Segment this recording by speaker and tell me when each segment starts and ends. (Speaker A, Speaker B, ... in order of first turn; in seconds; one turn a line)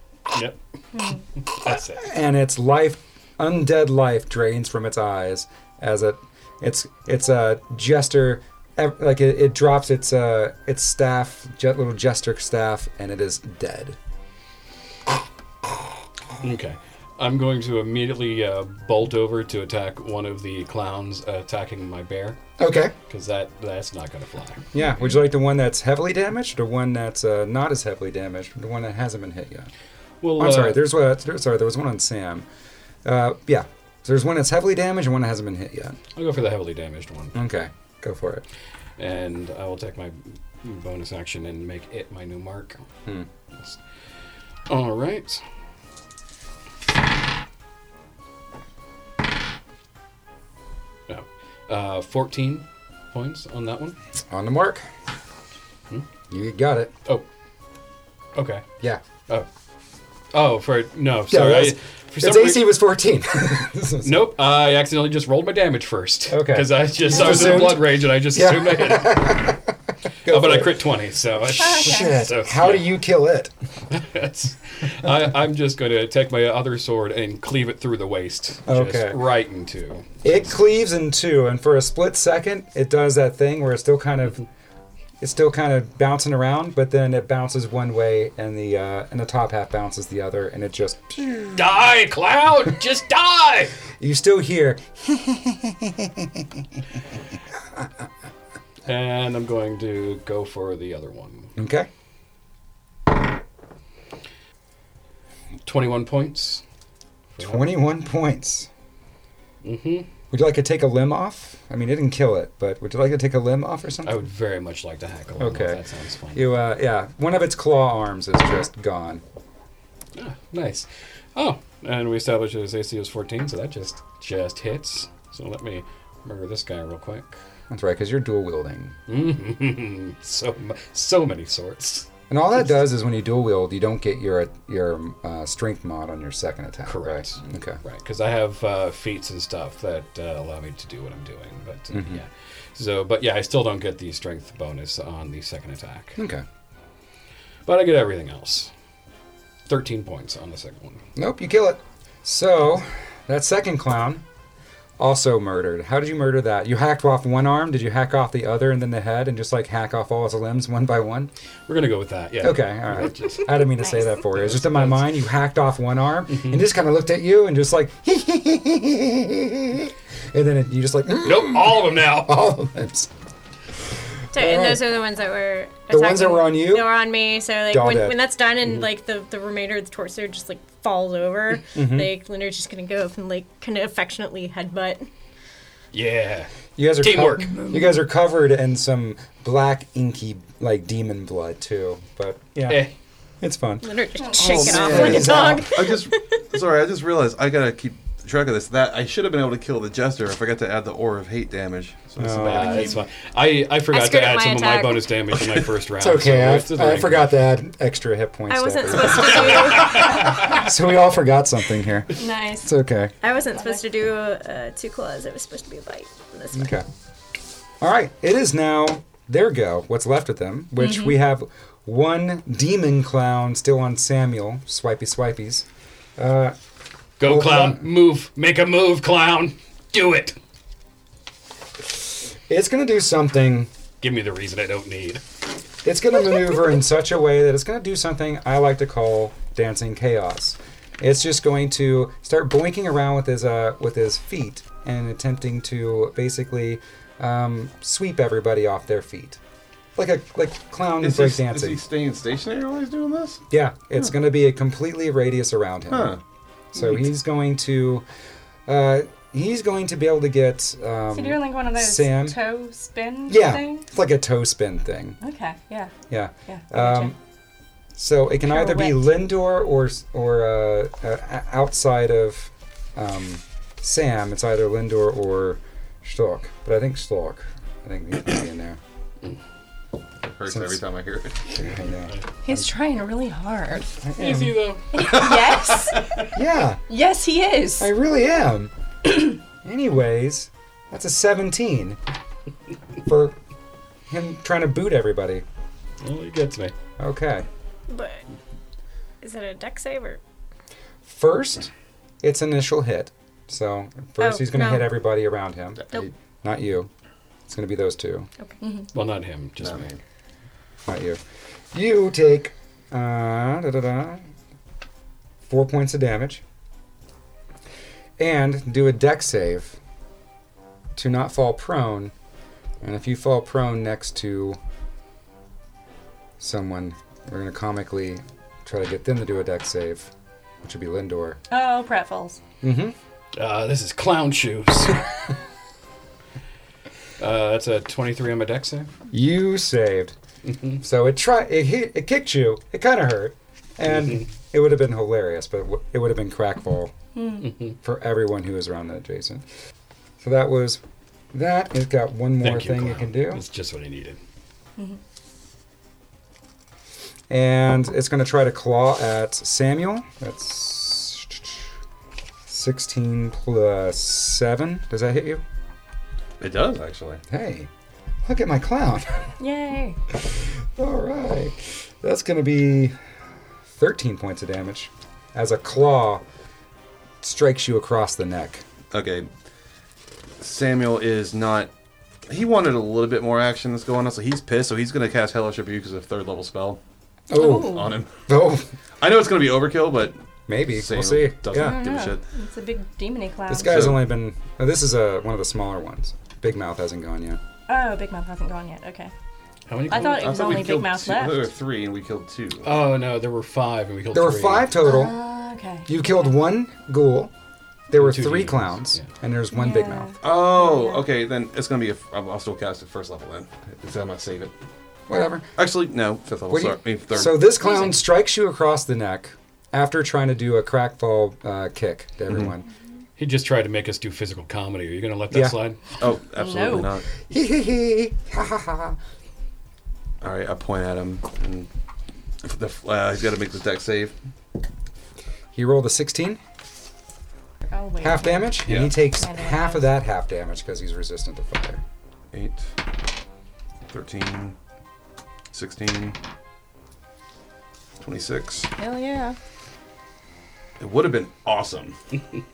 Speaker A: 0.3-0.6
Speaker A: 1.4-2.1
Speaker B: 1.6-14.0
Speaker A: 16.4-22.4
Speaker B: 22.6-22.9
Speaker A: 23.1-24.7
Speaker B: 24.7-29.7
Speaker A: 30.2-30.8
Speaker B: 30.4-32.5
Speaker B: 33.0-36.0
Speaker A: 36.1-37.4
Speaker B: 37.3-38.4
Speaker A: 39.0-42.8
Speaker A: 44.7-45.4
Speaker A: 51.1-54.0
Speaker B: 54.3-54.8
Speaker B: 56.3-56.9
Speaker A: 58.4-58.6
Speaker A: 60.3-62.7
Speaker B: 61.3-64.3
Speaker A: 64.0-69.5
Speaker B: 66.3-69.7
Speaker B: 70.2-70.8
Speaker A: 70.2-72.8
Speaker C: 71.6-72.1
Speaker B: 71.7-73.5
Speaker A: 73.9-80.4
Speaker B: 78.7-79.2
Speaker B: 80.2-84.4
Speaker B: 85.2-91.8
Speaker A: 91.5-93.8
Speaker B: 94.0-96.8
Speaker A: 98.8-101.5
Speaker B: 101.6-101.9
Speaker A: 105.6-106.6
Speaker A: 107.3-107.6
Speaker B: 107.4-108.7
Speaker A: 109.6-110.1
Speaker B: 110.3-114.2
Speaker A: 114.0-116.5
Speaker B: 115.4-115.8
Speaker B: 116.3-119.2
Speaker A: 120.1-127.4
Speaker B: 127.7-129.0
Speaker A: 129.1-132.1
Speaker B: 132.3-137.8
Speaker A: 136.8-146.2
Speaker B: 141.9-142.2
Speaker B: 146.2-146.4
Speaker A: 147.7-148.7
Speaker A: 149.7-151.0
Speaker B: 151.2-154.2
Speaker B: 155.0-161.3
Speaker A: 161.7-163.7
Speaker B: 162.4-173.1
Speaker A: 164.2-165.1
Speaker A: 171.2-172.4
Speaker B: 174.3-174.9
Speaker D: 174.3-185.1
Speaker B: 175.9-176.9
Speaker B: 177.7-178.2
Speaker B: 181.7-182.2
Speaker A: 185.9-188.0
Speaker B: 186.8-192.9
Speaker A: 192.7-192.9
Speaker B: 193.4-193.9
Speaker D: 193.8-196.2
Speaker C: 194.2-195.1
Speaker E: 194.3-202.9
Speaker B: 194.5-195.8
Speaker B: 202.2-202.9
Speaker A: 202.3-207.3
Speaker D: 203.9-205.1
Speaker B: 206.0-213.1
Speaker D: 208.5-210.3
Speaker A: 209.7-210.7
Speaker C: 212.1-212.7
Speaker D: 213.2-216.8
Speaker C: 213.5-213.8
Speaker B: 216.5-216.8
Speaker B: 217.8-226.6
Speaker C: 220.8-221.2
Speaker A: 227.2-230.4
Speaker B: 227.2-227.9
Speaker B: 232.5-233.7
Speaker A: 234.0-235.2
Speaker B: 235.8-249.4
Speaker B: 250.0-251.8
Speaker E: 251.0-253.4
Speaker B: 253.5-256.2
Speaker E: 255.9-256.2
Speaker B: 256.7-258.1
Speaker B: 258.7-262.4
Speaker C: 261.1-263.9
Speaker B: 263.3-265.2
Speaker C: 265.2-265.9
Speaker B: 266.1-267.2
Speaker C: 266.5-267.1
Speaker B: 268.0-278.8
Speaker C: 268.4-269.1
Speaker E: 280.2-281.6
Speaker B: 280.5-280.8
Speaker B: 281.6-282.1
Speaker C: 282.4-284.0
Speaker B: 284.0-284.7
Speaker A: 284.2-286.3
Speaker C: 284.9-286.1
Speaker B: 286.3-286.8
Speaker C: 286.9-287.9
Speaker B: 287.8-292.0
Speaker B: 293.1-293.4
Speaker B: 294.1-295.4
Speaker A: 296.0-296.7
Speaker B: 297.0-297.5
Speaker D: 297.9-298.2
Speaker D: 299.2-300.2
Speaker B: 301.0-301.7
Speaker B: 302.2-305.9
Speaker D: 304.2-304.9
Speaker B: 306.4-306.9
Speaker B: 307.5-308.3
Speaker C: 308.6-308.9
Speaker A: 308.9-309.9
Speaker E: 309.6-310.0
Speaker B: 310.9-311.2
Speaker B: 311.7-314.3
Speaker B: 315.5-316.4
Speaker B: 318.2-319.8
Speaker B: 321.0-322.1
Speaker B: 322.8-324.6
Speaker B: 326.4-330.1
Speaker B: 330.6-331.4
Speaker C: 331.5-332.4
Speaker B: 332.6-333.0
Speaker A: 333.4-335.0
Speaker A: 337.2-338.9
Speaker B: 339.1-340.1
Speaker B: 340.8-346.9
Speaker C: 347.1-347.5
Speaker A: 347.4-347.8
Speaker B: 347.8-349.4
Speaker B: 350.2-350.8
Speaker B: 351.3-353.4
Speaker A: 352.4-354.2
Speaker B: 357.3-361.7
Speaker B: 362.5-365.4
Speaker E: 366.4-367.2
Speaker B: 367.3-367.7
Speaker B: 368.2-369.3
Speaker C: 369.4-370.0
Speaker B: 370.6-373.0
Speaker B: 373.7-376.2
Speaker B: 377.2-378.6
Speaker E: 378.9-379.3
Speaker E: 380.4-381.7
Speaker E: 382.3-386.8
Speaker B: 387.3-388.7
Speaker C: 387.3-388.0
Speaker E: 387.5-388.2
Speaker E: 389.0-392.2
Speaker B: 390.5-391.8
Speaker C: 391.6-393.9
Speaker B: 393.5-397.4
Speaker E: 393.6-394.0
Speaker C: 397.7-399.1
Speaker A: 399.7-400.6
Speaker C: 399.9-401.5
Speaker E: 399.9-402.7
Speaker A: 402.6-404.7
Speaker B: 404.1-405.1
Speaker C: 404.8-406.2
Speaker B: 405.9-407.3
Speaker B: 407.9-410.1
Speaker A: 407.9-409.1
Speaker C: 409.5-411.0
Speaker E: 410.2-414.5
Speaker B: 415.1-415.5
Speaker E: 415.6-417.6
Speaker B: 416.5-422.7
Speaker C: 417.6-417.9
Speaker A: 423.2-425.8
Speaker B: 425.3-425.6
Speaker E: 426.0-427.1
Speaker C: 426.4-426.9
Speaker B: 427.3-429.0
Speaker E: 430.2-431.7
Speaker E: 432.4-434.1
Speaker B: 435.5-436.4
Speaker C: 437.7-439.9
Speaker B: 438.0-441.8
Speaker E: 438.7-438.9
Speaker E: 442.3-442.7
Speaker E: 443.9-444.6
Speaker E: 445.5-446.2
Speaker E: 448.0-448.7
Speaker C: 448.8-449.4
Speaker E: 450.8-452.0